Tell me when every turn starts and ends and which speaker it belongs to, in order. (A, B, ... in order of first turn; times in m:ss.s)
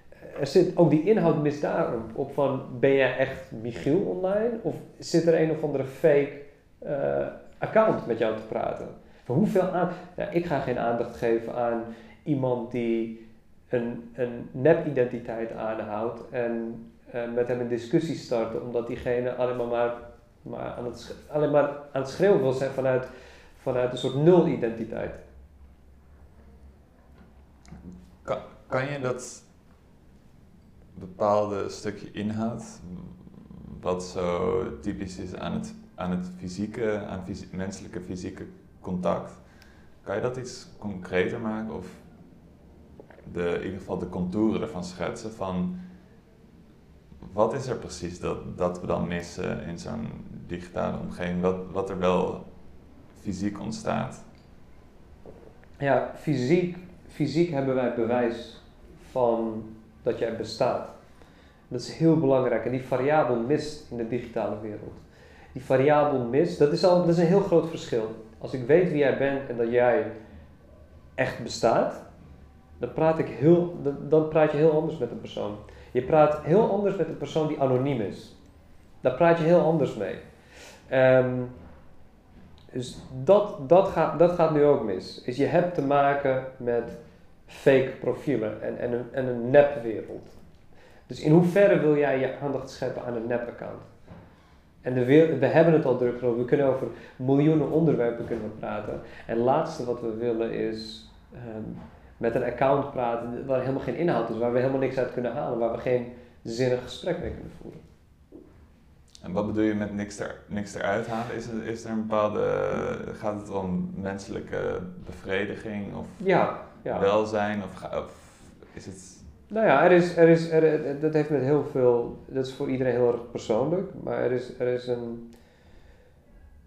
0:00.2-0:13.2 A
0:13.7-0:25.2 A
0:28.2-0:29.5 B
0:30.9-0:39.4 B
0:40.0-0:42.0 B
0:43.2-0:45.8 B
0:47.2-0:52.4 B
0:53.1-0:54.2 B
0:55.8-1:00.9 A
1:01.7-1:10.1 A
1:11.2-1:12.0 A
1:12.8-1:18.3 A
1:19.0-1:20.2 A
1:20.9-1:21.5 A
1:22.7-1:30.4 A
1:31.1-1:33.9 A
1:34.8-1:47.8 A
1:49.2-1:56.2 B
1:56.2-1:57.1 A
1:56.9-1:59.3 B
1:59.5-2:05.3 A